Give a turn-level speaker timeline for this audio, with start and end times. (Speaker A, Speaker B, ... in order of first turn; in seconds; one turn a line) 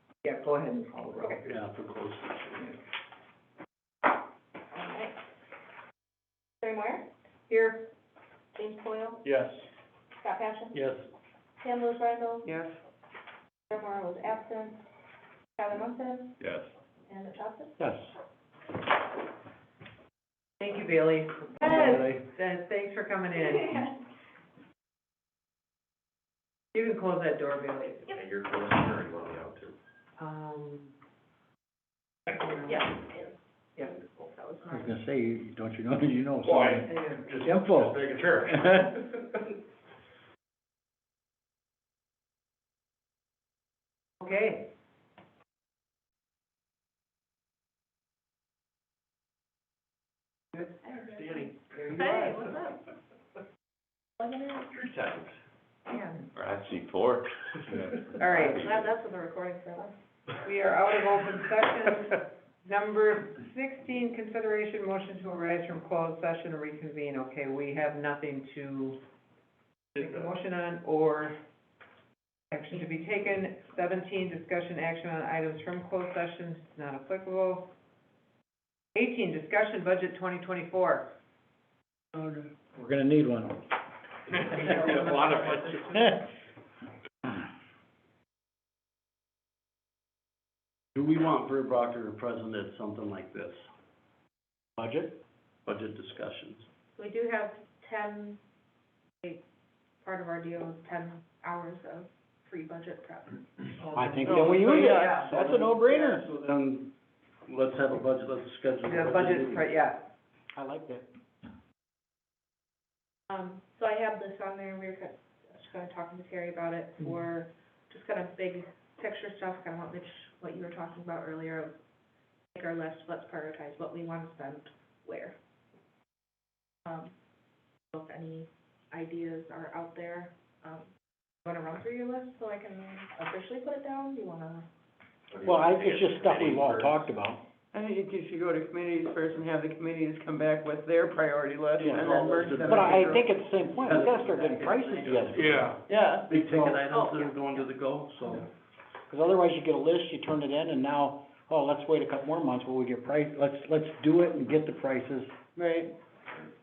Speaker A: 0.2-1.4
Speaker B: 1.4-2.7
Speaker C: 4.7-5.2
Speaker C: 6.6-7.1
Speaker A: 7.5-7.9
Speaker C: 8.5-9.2
Speaker D: 9.2-9.7
Speaker C: 10.2-10.8
Speaker B: 10.7-11.1
Speaker C: 11.6-12.5
Speaker E: 12.4-12.8
Speaker C: 13.7-14.8
Speaker C: 15.6-16.4
Speaker D: 16.4-16.7
Speaker C: 17.1-17.8
Speaker F: 17.8-18.1
Speaker A: 20.6-23.9
Speaker B: 21.6-22.2
Speaker A: 26.7-28.2
Speaker G: 28.1-29.7
Speaker A: 30.2-30.9
Speaker A: 32.3-32.9
Speaker C: 32.6-34.9
Speaker F: 34.7-36.9
Speaker D: 36.5-38.7
Speaker A: 36.9-37.2
Speaker F: 37.4-39.1
Speaker A: 44.2-44.6
Speaker C: 50.9-52.8
Speaker A: 51.7-52.4
Speaker C: 54.2-54.8
Speaker A: 55.9-56.2
Speaker G: 56.4-57.7
Speaker D: 56.6-57.2
Speaker A: 58.1-58.7
Speaker C: 58.5-59.9
Speaker A: 60.4-69.0
Speaker A: 69.9-71.4
Speaker A: 72.5-77.7
Speaker A: 78.9-81.1
Speaker F: 82.7-83.6
Speaker D: 84.3-86.1
Speaker A: 84.4-86.0
Speaker B: 90.9-93.7
Speaker F: 94.8-95.2
Speaker B: 95.7-96.7
Speaker C: 97.0-98.4
Speaker C: 100.0-103.4
Speaker A: 103.8-104.3
Speaker F: 103.9-106.2
Speaker E: 104.2-106.1
Speaker B: 104.8-106.9
Speaker B: 107.5-109.7
Speaker A: 108.8-110.0
Speaker F: 110.5-111.1
Speaker C: 113.3-121.8
Speaker C: 122.5-125.3
Speaker C: 126.8-127.1
Speaker C: 127.9-130.9
Speaker C: 131.4-134.7
Speaker G: 135.3-137.0
Speaker F: 135.4-137.4
Speaker E: 137.7-143.3
Speaker B: 141.8-143.2
Speaker F: 141.8-145.8
Speaker G: 144.0-145.2
Speaker B: 145.2-145.5
Speaker D: 145.2-145.8
Speaker E: 145.9-146.3
Speaker B: 146.3-148.5
Speaker F: 146.3-146.9
Speaker F: 149.1-155.3
Speaker E: 155.5-155.9